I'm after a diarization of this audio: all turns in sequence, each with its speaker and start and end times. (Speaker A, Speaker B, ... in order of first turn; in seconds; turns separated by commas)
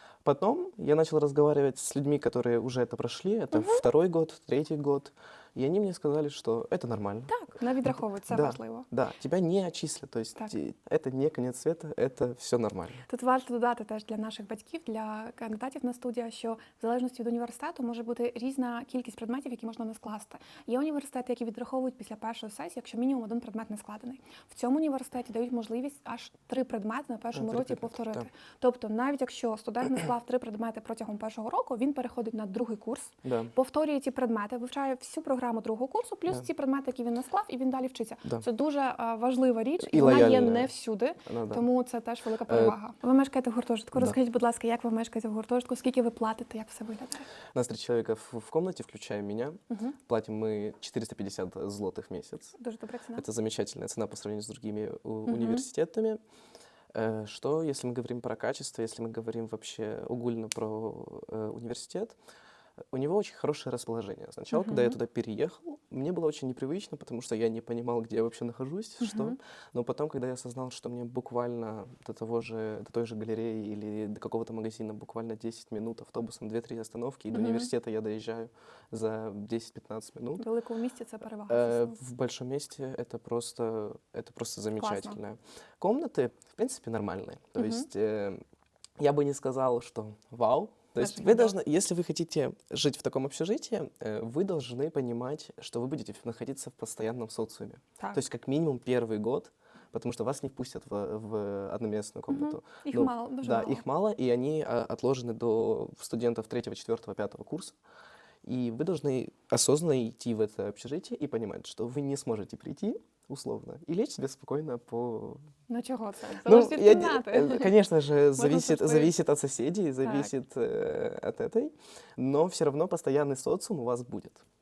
Speaker A: 0.2-13.0, Speaker B: 3.5-3.8, Speaker B: 7.3-8.9, Speaker B: 13.1-47.3, Speaker A: 27.3-28.3, Speaker A: 33.2-33.5, Speaker A: 39.8-40.7, Speaker A: 41.2-41.6, Speaker A: 42.5-42.8, Speaker A: 47.5-52.5, Speaker B: 49.7-50.0, Speaker B: 52.6-53.3, Speaker A: 53.1-56.2, Speaker B: 55.3-55.6, Speaker A: 56.9-62.1, Speaker A: 62.9-80.4, Speaker B: 64.5-65.0, Speaker B: 69.0-69.3, Speaker B: 77.3-77.7, Speaker B: 80.4-82.0, Speaker A: 81.5-88.4, Speaker B: 84.8-85.2, Speaker B: 87.6-87.9, Speaker A: 89.0-107.8, Speaker B: 91.0-91.6, Speaker B: 98.0-98.2, Speaker B: 102.3-103.8, Speaker A: 108.4-115.4, Speaker B: 115.7-117.8, Speaker A: 116.4-124.4, Speaker B: 118.3-119.2, Speaker B: 120.0-120.3